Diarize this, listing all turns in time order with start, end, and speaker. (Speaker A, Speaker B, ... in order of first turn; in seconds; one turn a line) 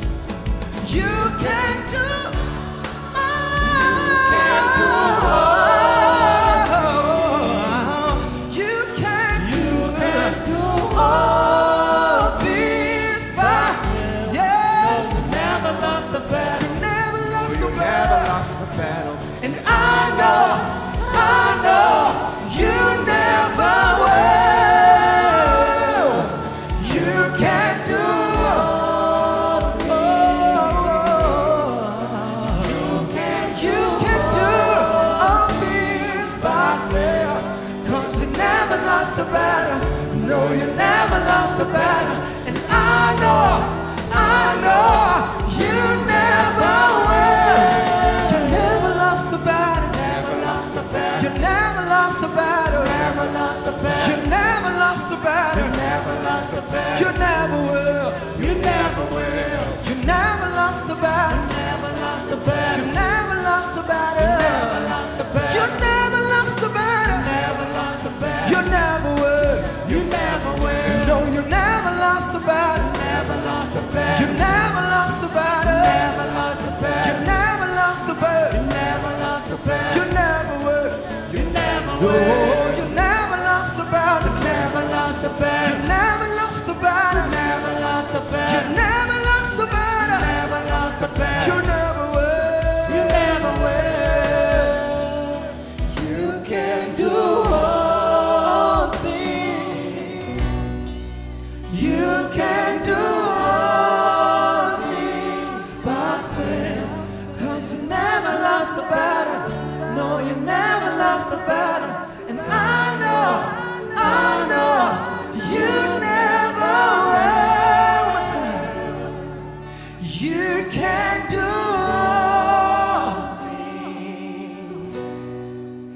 Speaker A: 0.8-100.7
Speaker A: 101.7-119.2
Speaker A: 120.0-124.8